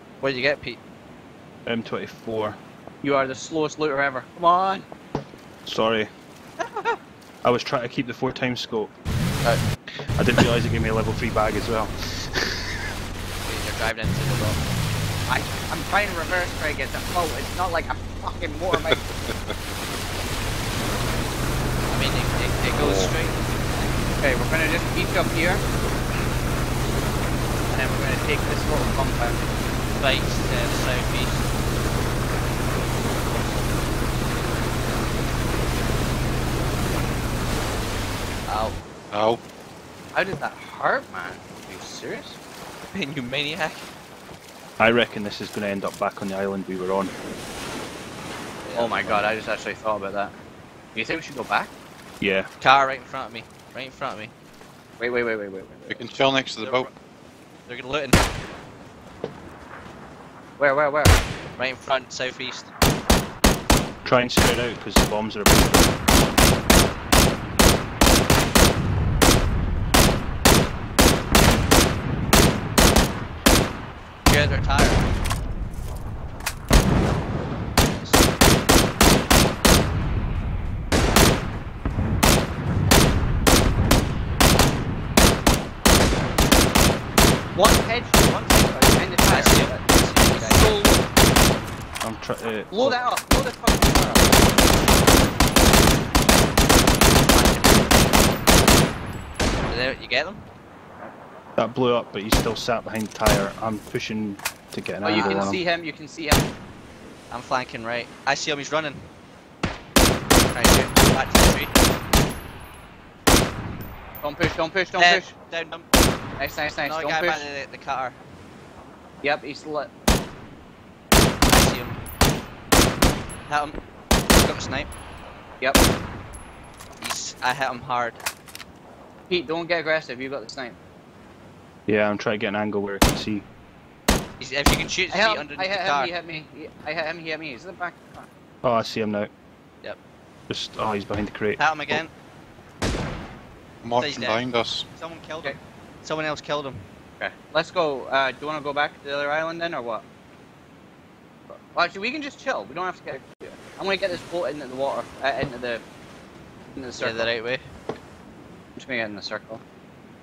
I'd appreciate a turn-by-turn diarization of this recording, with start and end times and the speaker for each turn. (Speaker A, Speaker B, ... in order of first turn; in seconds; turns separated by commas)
Speaker A: 0.2-0.8, Speaker B: 1.7-2.6, Speaker C: 3.0-4.9, Speaker B: 5.7-6.1, Speaker B: 7.4-8.9, Speaker B: 10.2-12.8, Speaker A: 13.4-14.6, Speaker C: 15.3-19.0, Speaker D: 18.7-19.5, Speaker A: 21.9-24.0, Speaker D: 22.8-23.1, Speaker C: 24.2-25.6, Speaker C: 27.7-29.4, Speaker A: 30.0-31.4, Speaker A: 38.5-38.8, Speaker D: 39.1-39.4, Speaker C: 40.1-42.4, Speaker A: 42.9-43.9, Speaker B: 44.8-47.1, Speaker A: 48.6-49.3, Speaker C: 48.8-50.4, Speaker C: 50.9-51.7, Speaker B: 52.2-52.5, Speaker A: 52.6-54.3, Speaker C: 55.0-56.1, Speaker D: 55.9-56.9, Speaker A: 56.6-56.9, Speaker A: 57.7-58.2, Speaker C: 60.6-61.2, Speaker A: 61.6-62.7, Speaker B: 64.0-65.9, Speaker A: 74.3-75.1, Speaker A: 77.8-78.3, Speaker C: 87.5-91.1, Speaker A: 89.3-90.7, Speaker B: 92.0-93.0, Speaker C: 92.7-94.6, Speaker C: 97.1-98.2, Speaker A: 99.7-100.5, Speaker B: 101.6-105.6, Speaker C: 105.0-106.5, Speaker A: 105.2-105.5, Speaker A: 107.3-109.1, Speaker A: 110.5-111.7, Speaker C: 114.2-115.3, Speaker A: 115.0-115.9, Speaker C: 116.4-117.5, Speaker A: 116.8-118.2, Speaker C: 119.2-119.9, Speaker A: 121.5-122.0, Speaker A: 123.5-123.8, Speaker A: 124.4-124.9, Speaker A: 127.0-128.2, Speaker C: 129.3-130.8, Speaker B: 131.9-133.5, Speaker A: 134.4-136.1, Speaker C: 135.1-138.3, Speaker B: 138.6-139.3, Speaker B: 140.5-142.0, Speaker A: 141.6-142.1, Speaker D: 143.8-144.9, Speaker A: 144.0-146.9, Speaker C: 147.2-150.1, Speaker C: 151.5-155.8, Speaker C: 156.8-157.3, Speaker A: 157.0-157.7, Speaker C: 158.8-159.6